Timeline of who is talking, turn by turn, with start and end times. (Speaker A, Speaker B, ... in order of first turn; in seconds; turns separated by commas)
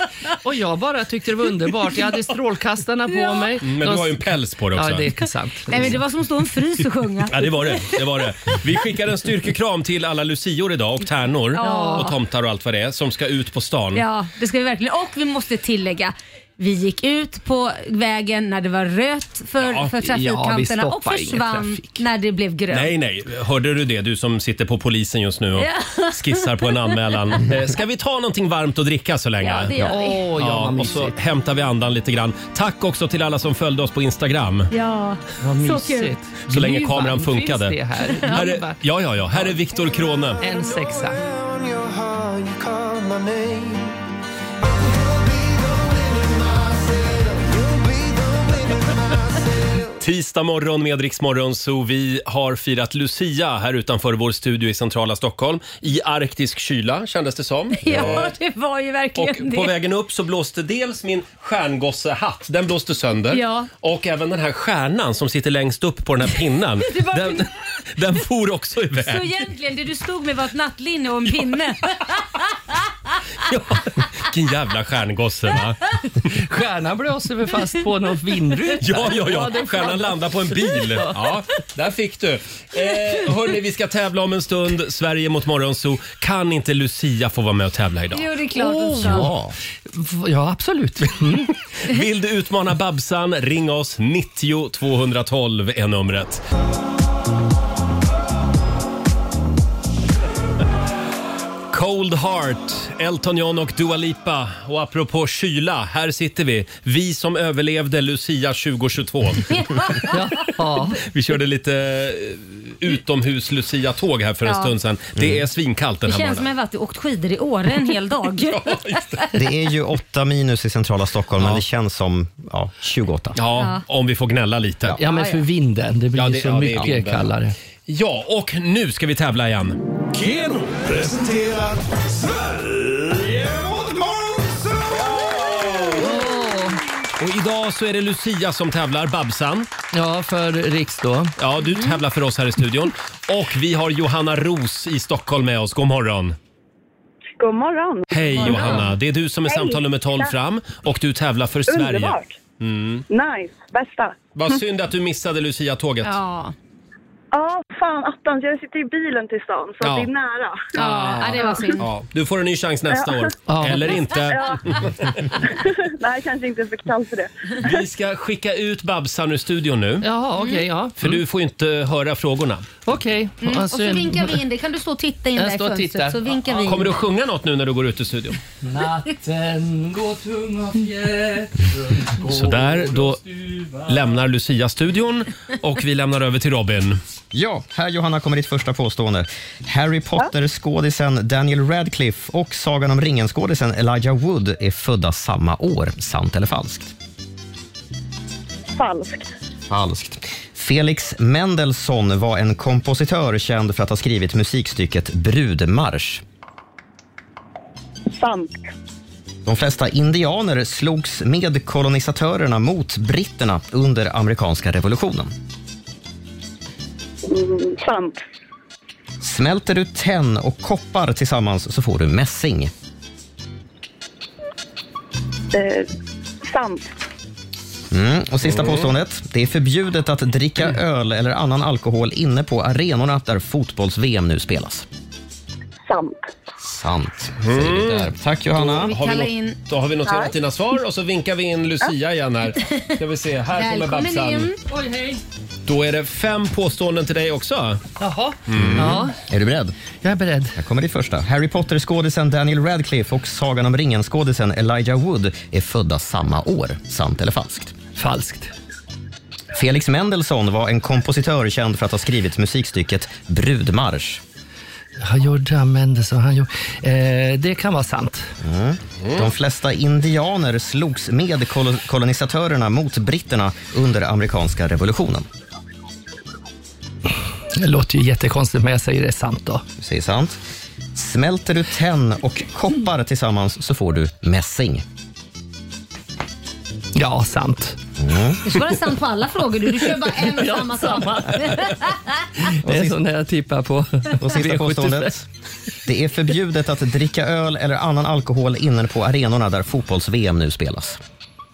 Speaker A: 0.4-6.0, Speaker B: 3.2-3.5, Speaker C: 3.6-5.1, Speaker B: 5.7-8.5, Speaker C: 7.3-14.0, Speaker B: 11.6-12.1, Speaker A: 11.6-12.1, Speaker B: 13.9-22.9, Speaker C: 19.6-19.9, Speaker A: 20.0-22.0, Speaker C: 22.7-29.8, Speaker B: 25.6-27.4, Speaker B: 29.4-30.3, Speaker A: 29.8-31.2, Speaker C: 30.4-34.7, Speaker B: 34.7-36.1, Speaker A: 35.4-39.6, Speaker C: 36.5-37.8, Speaker C: 38.3-40.4, Speaker A: 40.4-41.2, Speaker D: 40.5-44.0, Speaker D: 44.8-49.9, Speaker C: 50.0-58.3, Speaker B: 57.8-59.7, Speaker C: 59.1-69.3, Speaker B: 63.3-63.7, Speaker B: 66.8-67.5, Speaker B: 69.0-72.4, Speaker C: 73.4-75.9, Speaker A: 76.3-81.4, Speaker C: 78.8-88.3, Speaker B: 88.1-89.3, Speaker A: 88.5-89.3, Speaker E: 89.0-89.5, Speaker A: 89.9-91.5, Speaker C: 91.8-96.4, Speaker C: 101.7-109.5, Speaker B: 109.5-110.5, Speaker A: 110.1-111.0, Speaker C: 111.0-116.5, Speaker B: 114.4-114.7, Speaker E: 115.2-115.4, Speaker B: 116.0-119.2, Speaker C: 118.5-119.2, Speaker E: 119.3-123.4, Speaker C: 123.3-125.0, Speaker B: 123.5-123.8, Speaker A: 125.0-127.5, Speaker B: 125.1-125.4, Speaker C: 126.1-127.3, Speaker C: 127.9-129.8, Speaker D: 131.3-131.7, Speaker D: 132.2-132.5, Speaker D: 133.5-134.8, Speaker C: 135.2-135.9, Speaker A: 135.9-136.8, Speaker C: 137.2-139.7, Speaker A: 139.9-141.3, Speaker C: 141.4-146.3, Speaker F: 147.4-148.8, Speaker C: 148.1-153.0, Speaker B: 148.4-148.9, Speaker F: 149.4-150.3, Speaker F: 151.7-152.3, Speaker F: 153.1-154.2, Speaker C: 154.3-156.2, Speaker B: 156.0-156.5, Speaker F: 157.3-160.7, Speaker C: 159.8-160.1, Speaker B: 160.7-161.9, Speaker C: 160.8-165.1, Speaker A: 160.8-161.5, Speaker F: 162.9-163.3, Speaker A: 163.4-164.1, Speaker F: 164.2-164.6, Speaker F: 165.4-167.8, Speaker C: 167.6-170.1, Speaker A: 170.0-171.2, Speaker B: 170.4-170.7, Speaker C: 171.0-172.7, Speaker A: 172.8-174.4, Speaker B: 173.4-176.9, Speaker A: 175.3-176.3, Speaker C: 176.5-178.4, Speaker A: 178.6-184.2, Speaker C: 182.3-183.2, Speaker C: 183.8-187.0, Speaker E: 187.3-196.9, Speaker F: 198.7-199.3, Speaker E: 199.7-206.2, Speaker F: 208.1-208.6, Speaker E: 209.4-215.3, Speaker F: 217.2-218.2, Speaker E: 219.2-222.7, Speaker F: 225.5-225.9, Speaker F: 226.4-226.9, Speaker E: 227.9-234.8, Speaker C: 228.4-228.9, Speaker F: 235.8-236.2, Speaker E: 236.6-238.9, Speaker C: 237.4-244.5, Speaker B: 238.8-239.6, Speaker F: 240.0-240.3, Speaker B: 243.6-244.6, Speaker A: 244.6-245.2, Speaker C: 245.7-247.8, Speaker A: 248.0-249.2, Speaker C: 248.5-249.0, Speaker E: 248.5-249.7, Speaker A: 250.0-250.6, Speaker E: 250.6-257.7, Speaker A: 257.9-258.5, Speaker E: 259.5-264.2, Speaker A: 265.0-268.3, Speaker E: 268.4-275.2, Speaker A: 277.6-279.6, Speaker E: 279.8-280.4, Speaker E: 280.9-284.8, Speaker A: 286.9-287.8, Speaker E: 288.0-288.4, Speaker B: 288.4-292.3, Speaker A: 289.9-291.9, Speaker A: 292.6-295.1, Speaker E: 292.6-293.0, Speaker E: 294.2-295.3, Speaker E: 295.9-301.0